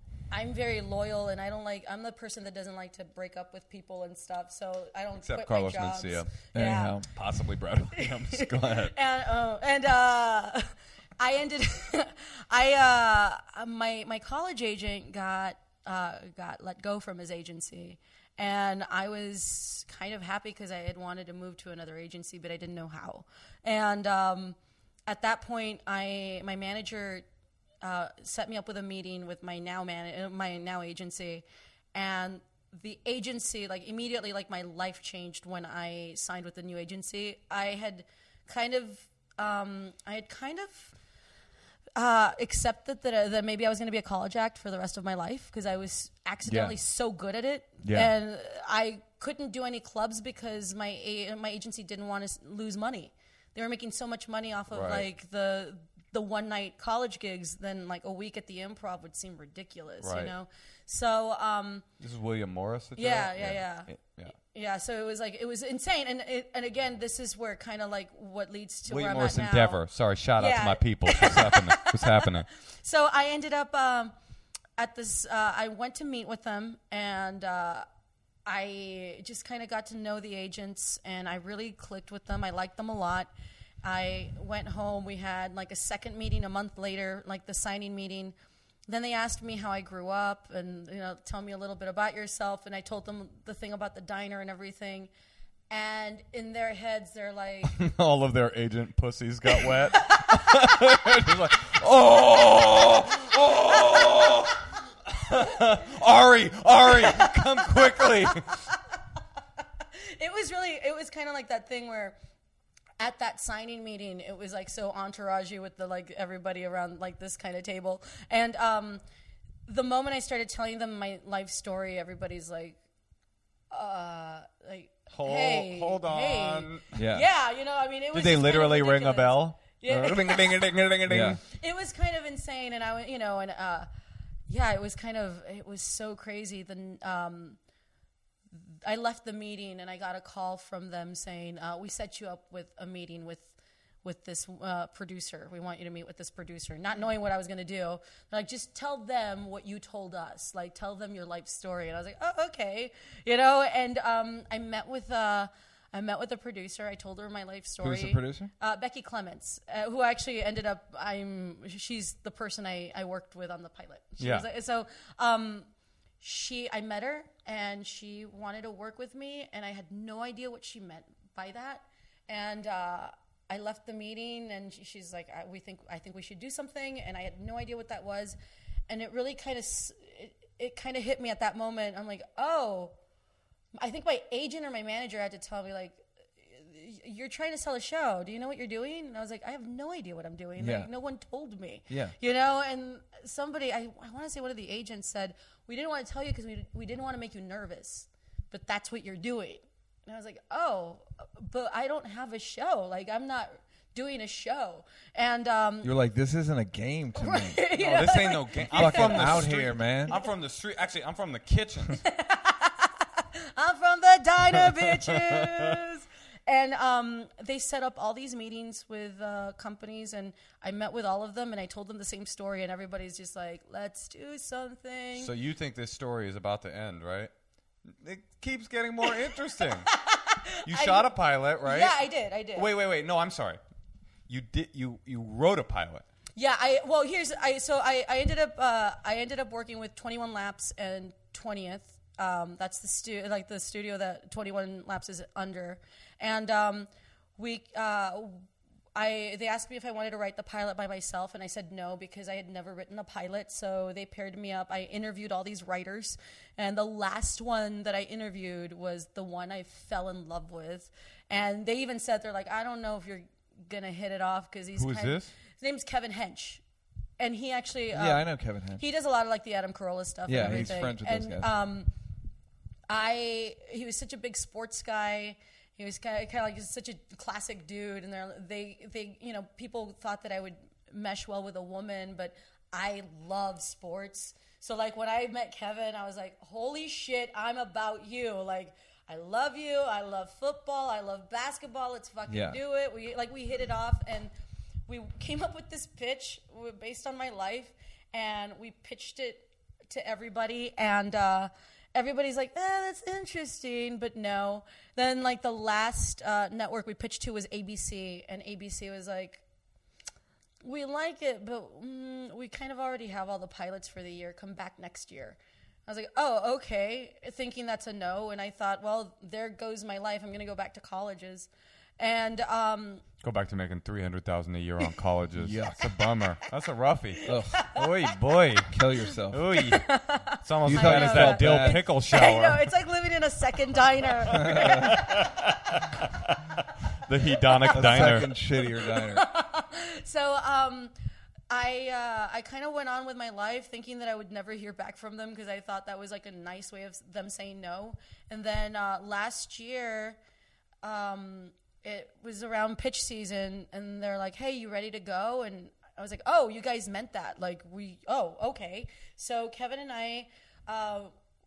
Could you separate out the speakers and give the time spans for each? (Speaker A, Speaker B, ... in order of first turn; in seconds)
Speaker A: 0.3-7.0, 8.0-27.2, 27.8-40.9, 42.0-61.9, 63.0-69.8, 70.4-74.1, 74.8-77.8, 78.5-83.3, 83.8-88.3, 88.9-95.1, 95.7-97.8, 99.6-100.2, 106.9-108.8, 109.9-112.2, 113.0-119.0, 119.7-122.8, 123.7-130.5, 131.5-133.9, 134.5-137.6, 138.5-165.7, 166.2-178.4, 178.9-182.9, 183.8-205.9, 207.2-209.6, 212.0-225.3, 229.1-232.7, 236.3-266.6, 267.2-271.9, 272.9-294.3, 294.9-309.4, 310.6-323.0, 327.2-328.1, 329.5-335.4, 337.5-340.9, 341.5-350.2, 350.8-361.1
Speaker B: 5.2-6.5, 7.0-8.9, 54.7-55.0, 60.0-60.3, 62.0-64.3, 68.9-72.5, 97.7-108.6, 125.1-126.8, 128.1-131.4, 164.2-164.4, 207.7-212.0, 214.9-215.8, 225.2-227.3, 227.8-229.9, 230.6-232.0, 232.5-233.6, 234.3-236.0, 264.8-265.3, 323.2-328.7, 329.3-329.9, 330.4-332.6, 334.3-338.3
Speaker C: 6.5-7.0, 46.5-46.8, 47.8-48.1, 126.9-127.2, 131.1-131.4, 157.8-158.5, 190.6-190.9, 191.9-192.1, 205.8-207.6, 208.7-210.1, 267.9-268.8, 270.3-271.5, 292.3-292.6, 325.4-325.9, 327.2-327.6, 328.7-329.4, 330.6-331.8, 334.4-334.9, 337.7-339.2